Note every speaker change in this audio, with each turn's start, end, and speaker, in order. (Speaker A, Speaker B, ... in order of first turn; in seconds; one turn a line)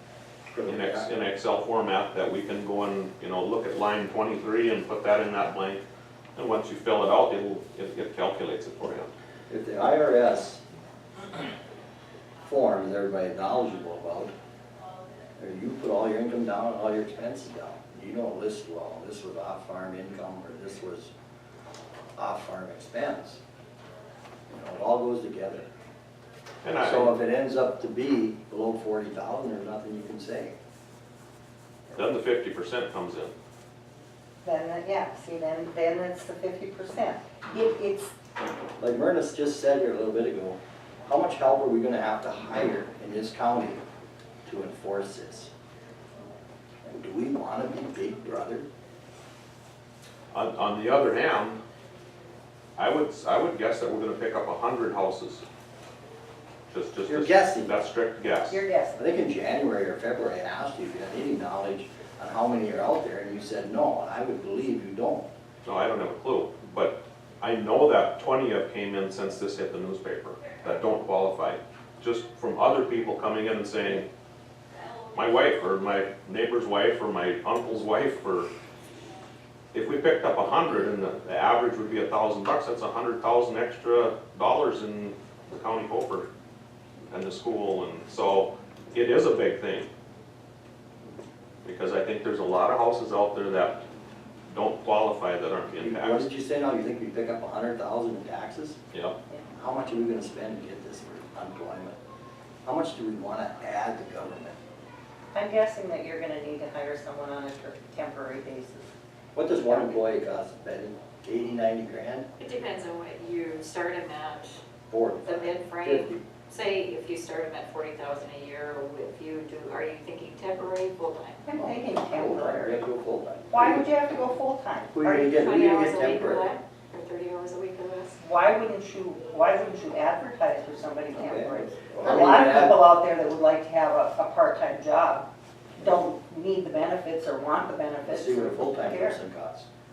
Speaker A: 0.5-1.1
Speaker B: 0.7-5.8
Speaker B: 6.3-9.1
Speaker A: 9.5-10.6
Speaker A: 12.4-14.3
Speaker A: 15.4-21.1
Speaker A: 22.1-23.4
Speaker A: 24.5-25.7
Speaker B: 26.6-27.1
Speaker A: 26.7-30.5
Speaker B: 31.9-33.3
Speaker C: 34.4-38.1
Speaker A: 38.8-43.8
Speaker A: 44.4-45.5
Speaker A: 46.8-48.7
Speaker B: 50.3-51.6
Speaker B: 52.8-55.4
Speaker B: 56.7-58.6
Speaker A: 57.1-57.7
Speaker C: 58.5-59.0
Speaker A: 59.0-65.3
Speaker B: 65.6-74.1
Speaker B: 75.1-78.5
Speaker B: 79.7-86.3
Speaker B: 87.1-89.9
Speaker B: 91.6-93.8
Speaker B: 94.5-96.3
Speaker A: 95.8-98.8
Speaker A: 99.5-102.0
Speaker A: 102.6-104.6
Speaker C: 105.3-108.9
Speaker A: 109.3-112.3
Speaker C: 109.6-110.0
Speaker D: 112.4-114.6
Speaker A: 114.9-116.2
Speaker D: 115.2-121.4
Speaker C: 121.4-122.8
Speaker A: 121.5-123.8
Speaker C: 123.5-125.3
Speaker A: 124.9-126.5
Speaker D: 125.3-128.2
Speaker C: 128.2-135.2
Speaker A: 131.1-132.8
Speaker C: 135.8-139.2
Speaker A: 138.0-139.7